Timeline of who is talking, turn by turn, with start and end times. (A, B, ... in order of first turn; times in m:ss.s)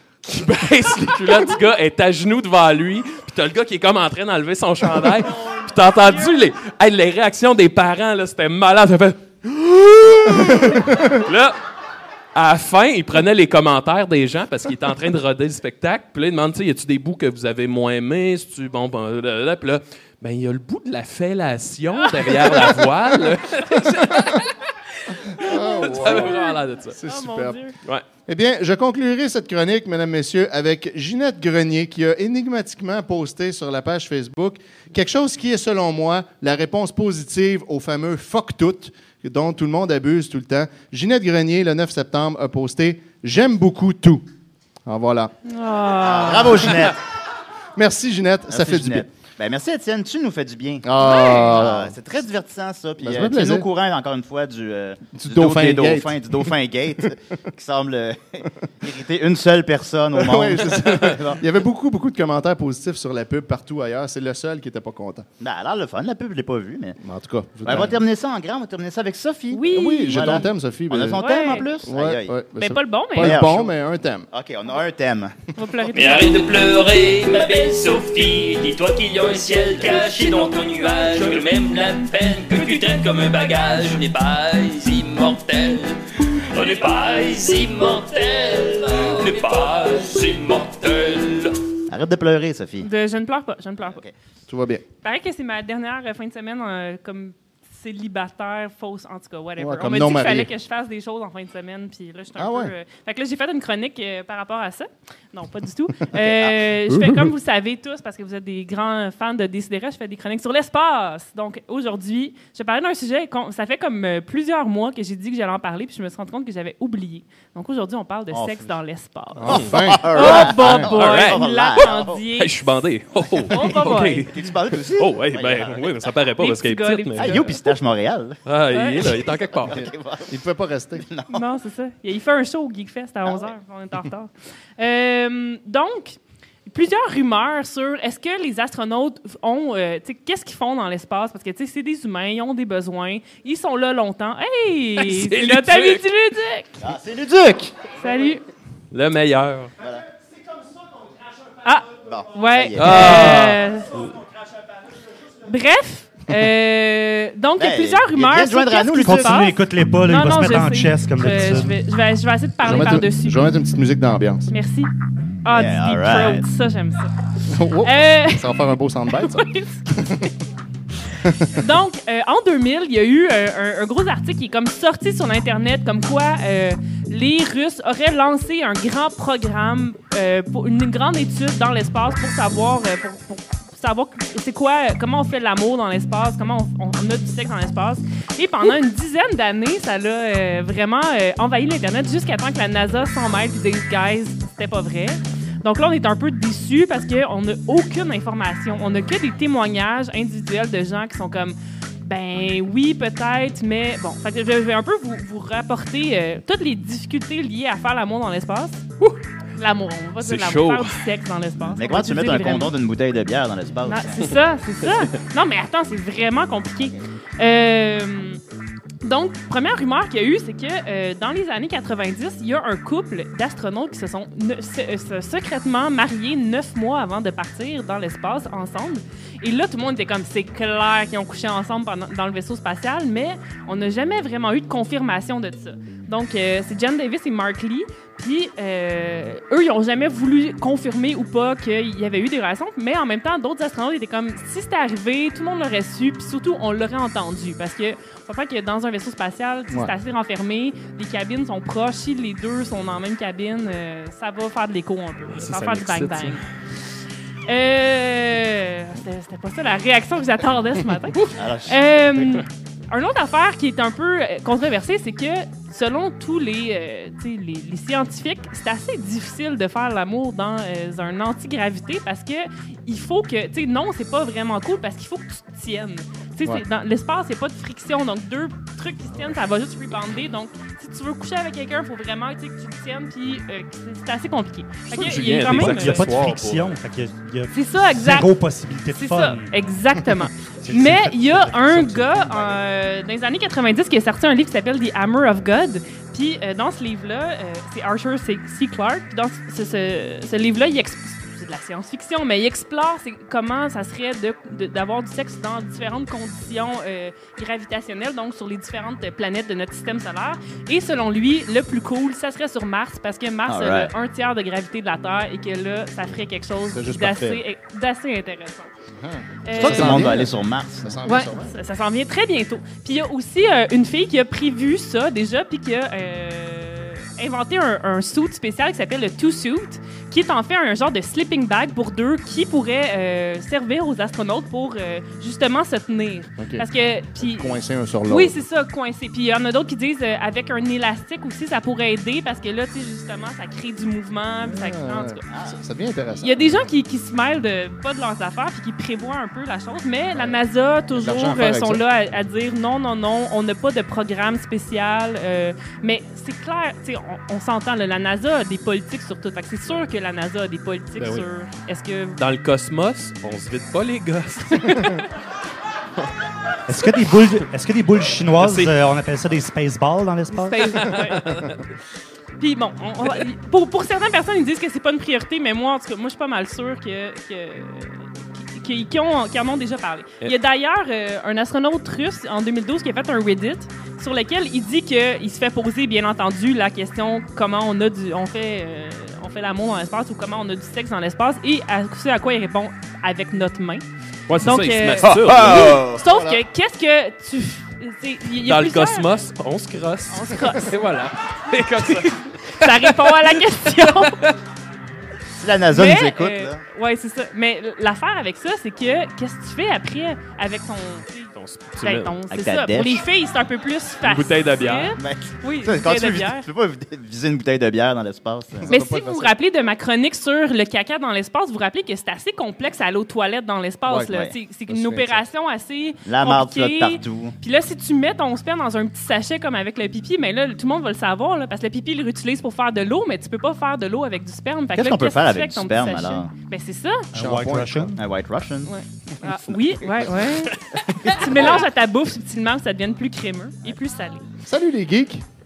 0:00.2-0:11.6 A
0:05.1-0:06.4 B
0:10.4-0:11.1 C
0:12.3-0:24.5 A
0:21.9-0:22.8 B
0:25.4-0:26.4 C
0:25.4-0:27.0 A
0:25.4-0:27.8 B
0:27.0-0:27.6 C
0:28.3-0:44.2 C
0:44.8-0:45.3 C
0:45.4-0:46.8 B
0:46.0-0:47.0 D
0:47.8-0:49.1 C
0:48.5-1:01.4 D
0:50.8-0:51.9 C
0:51.0-0:51.6 B
0:53.0-0:53.7 C
0:55.1-0:56.5 C
1:00.1-1:05.2 C
1:05.4-1:07.0 D
1:07.0-1:08.0 C
1:07.6-1:12.4 D
1:09.5-1:10.4 B
1:09.7-1:14.3 C
1:11.1-1:11.7 B
1:12.5-1:13.4 B
1:13.2-1:13.7 D
1:14.3-1:15.4 D
1:15.6-1:16.4 B
1:15.9-1:31.6 E
1:31.9-1:32.9 D
1:32.8-1:34.0 B
1:33.9-1:34.1 D
1:34.5-1:34.8 C
1:35.0-2:02.6 B
1:39.6-1:40.5 C
1:42.4-1:42.7 C
1:46.2-1:46.6 D
1:46.9-1:47.3 C
1:58.3-1:58.7 D
1:59.4-2:00.9 C
1:59.4-2:02.2 D
2:00.9-2:01.4 A
2:02.4-2:04.3 A
2:03.5-2:04.3 B
2:03.5-2:06.1 D
2:05.0-2:07.4 A
2:06.4-2:07.6 B
2:07.2-2:08.4 D
2:08.4-2:09.8 A
2:08.7-2:09.2 B
2:09.6-2:10.3 D
2:10.3-2:11.0 C
2:11.0-2:11.4 D
2:11.3-2:26.8 B
2:25.0-2:26.0 A
2:26.8-2:27.7 D
2:28.0-2:28.4 B
2:28.9-2:29.7 A
2:31.6-2:33.9 B
2:32.0-2:33.4 D
2:32.8-2:33.6 A
2:35.4-2:43.4 B
2:37.6-2:39.5 D
2:39.0-2:41.8 F
2:42.6-2:44.5 C
2:44.5-2:44.9 B
2:45.4-2:47.1 B
2:45.5-2:46.4 D
2:47.5-2:50.2 C
2:47.8-2:48.5 B
2:49.1-2:49.9 B
2:51.2-2:51.5 C
2:51.5-3:28.8 B
3:29.6-3:32.7 B
3:30.2-3:31.1 A
3:31.7-3:34.4 D
3:33.8-3:38.4 B
3:39.0-4:16.4 B
4:15.3-4:16.4 A
4:17.5-4:46.1 B
4:21.4-4:22.3 D
4:44.9-4:46.8 A
4:45.4-4:49.5 F
4:47.5-4:48.3 B
4:48.9-5:18.7 B
4:50.6-4:51.3 F
5:13.4-5:13.9 D
5:16.7-5:17.4 C
5:19.0-5:21.5 C
5:19.4-5:20.3 B
5:19.5-5:21.0 D
5:21.0-5:45.2 B
5:36.4-5:36.6 C
5:37.2-5:38.4 C
5:44.4-5:46.7 C
5:45.3-5:45.6 D
5:46.2-6:02.2 B
5:50.9-5:51.8 C
6:01.0-6:01.2 A
6:02.2-6:05.0 A
6:04.5-6:05.0 B
6:06.7-6:10.7 F
6:08.4-6:08.7 A
6:10.3-6:11.5 B
6:10.8-6:11.5 A
6:12.4-6:33.8 B
6:34.3-6:35.8 A
6:34.4-6:39.1 B
6:35.0-6:36.0 D
6:36.0-6:36.4 C
6:38.4-6:44.2 A
6:40.1-6:40.7 B
6:41.8-6:44.2 B
6:45.4-6:46.6 D
6:45.7-6:56.5 B
6:51.4-6:52.2 A
6:52.3-6:53.0 D
6:54.0-6:54.9 A
6:55.0-6:58.9 D
6:58.6-6:59.3 C
6:58.7-7:17.1 B
7:03.9-7:04.3 D
7:04.7-7:05.2 C
7:06.0-7:07.4 D
7:14.7-7:16.3 D
7:17.1-7:18.0 C
7:17.1-7:18.0 F
7:18.0-7:18.7 D
7:18.6-7:20.6 B
7:19.5-7:20.1 D
7:21.1-7:21.6 D
7:21.2-7:24.2 B
7:24.4-7:25.2 C